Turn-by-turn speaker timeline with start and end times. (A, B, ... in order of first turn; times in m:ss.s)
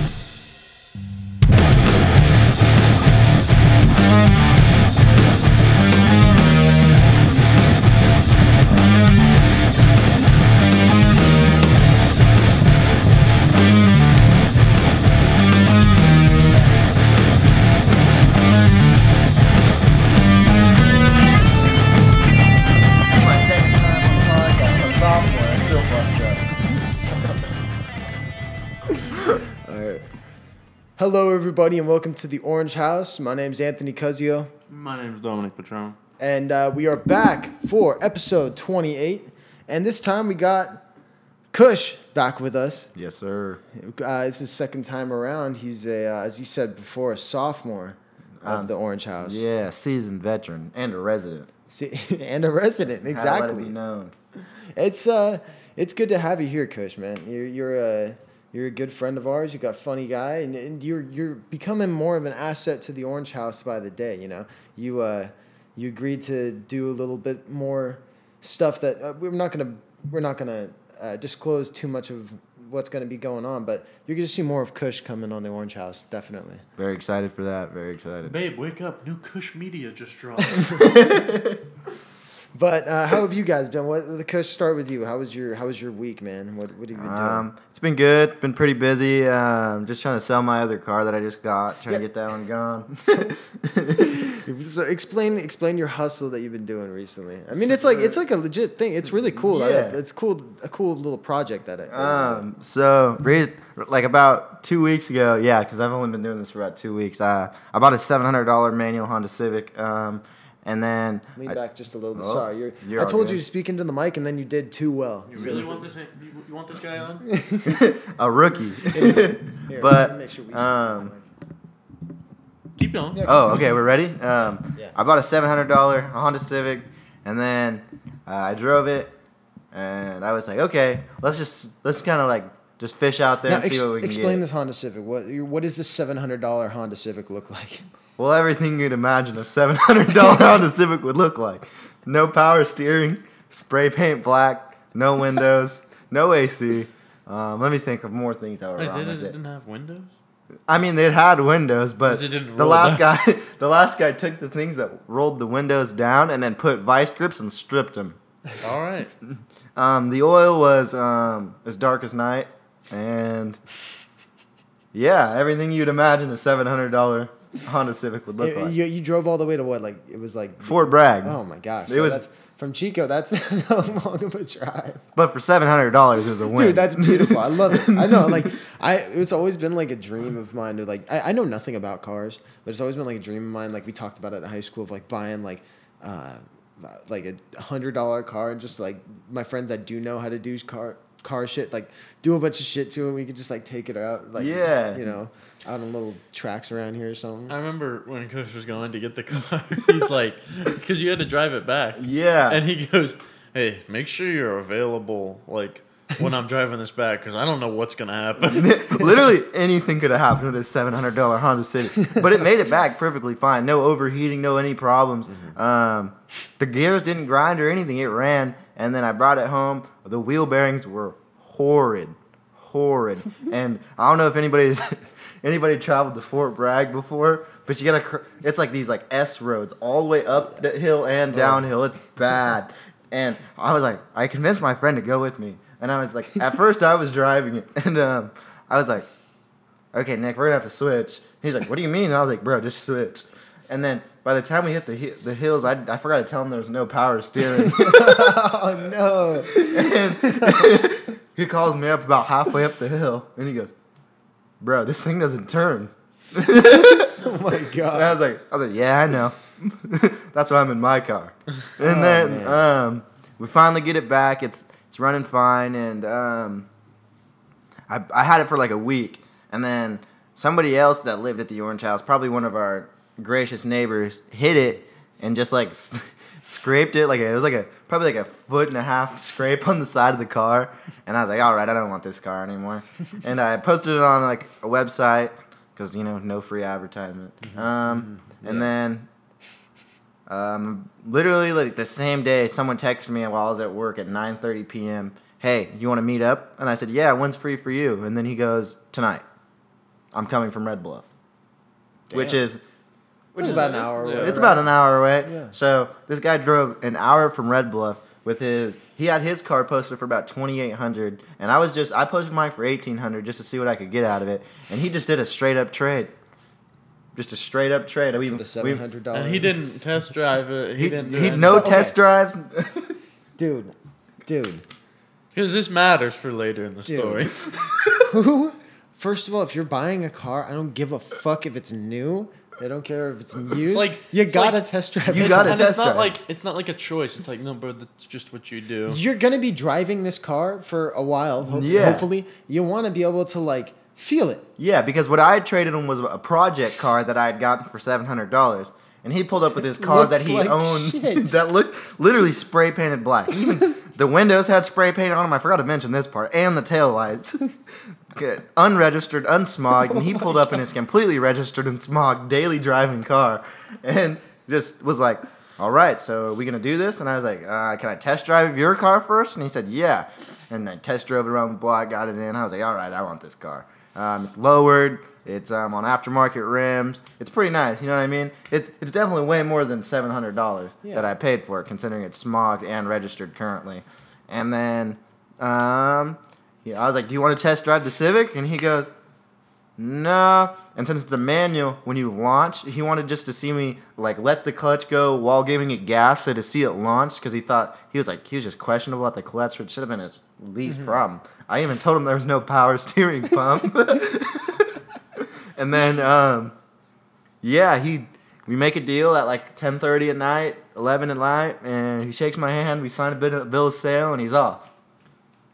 0:23.1-0:26.6 A
0:26.6-0:27.5 B
0:29.0-0:30.0 B
0:31.0-0:34.5 B
0:34.7-0:36.0 C
0:36.2-0:40.8 B
0:41.5-0:42.9 B
0:42.9-0:43.6 A
0:43.7-0:49.4 B
0:48.4-0:51.5 A
0:51.7-0:53.7 B
0:53.1-0:54.1 A
0:54.4-1:16.6 B
1:16.8-1:18.4 A
1:18.2-1:20.9 C
1:20.5-1:21.1 B
1:20.7-1:21.6 A
1:22.5-1:27.4 B
1:26.9-1:34.2 A
1:33.0-1:33.4 B
1:34.0-1:42.4 B
1:37.5-1:38.2 A
1:39.2-1:40.0 A
1:41.9-1:51.6 A
1:51.4-1:55.8 B
1:52.2-1:53.4 A
1:55.3-1:57.3 C
1:57.2-1:57.9 B
1:57.6-2:01.1 A
1:58.9-2:01.3 B
2:02.8-2:03.2 C
2:03.1-2:03.8 B
2:03.2-2:09.1 A
2:09.7-2:14.4 A
2:13.4-2:17.9 B
2:18.2-2:29.4 A
2:28.8-2:30.1 C
2:30.7-2:38.2 A
2:32.0-2:33.1 C
2:38.6-2:39.1 C
2:39.8-2:43.6 A
2:44.9-2:48.7 A
2:48.4-2:55.0 B
2:50.6-2:52.2 A
2:55.1-2:58.5 A
2:56.5-3:17.5 B
3:14.4-3:15.0 A
3:17.5-3:29.1 C
3:22.0-3:22.6 A
3:28.4-3:59.1 A
3:59.9-4:08.4 A
4:07.4-4:10.8 B
4:09.5-4:13.7 A
4:14.6-4:17.2 A
4:16.6-4:18.2 B
4:17.9-4:26.7 A
4:21.8-4:22.6 B
4:27.9-4:49.1 A
4:47.4-4:48.7 B
4:50.3-4:59.2 A
5:00.1-5:01.0 A
5:02.1-5:02.4 B
5:02.1-5:02.6 A
5:03.3-5:16.1 A
5:03.4-5:05.5 B
5:03.4-5:04.5 C
5:17.1-5:18.8 A
5:18.2-5:19.8 B
5:19.1-5:21.8 C
5:20.8-5:23.0 A
5:21.1-5:22.0 B
5:23.4-5:23.7 B
5:24.2-5:24.6 B
5:25.3-5:27.4 C
5:26.9-5:27.3 B
5:27.6-5:27.9 A
5:28.0-5:35.6 B
5:33.7-5:34.6 C
5:35.1-5:36.2 A
5:35.1-5:39.0 C
5:38.9-5:44.4 B
5:41.5-5:42.1 A
5:41.7-5:42.0 C
5:44.6-5:57.5 A
5:49.6-5:51.3 B
5:58.1-6:28.9 A
6:20.8-6:21.1 B
6:29.8-6:46.5 A
6:47.4-6:54.7 A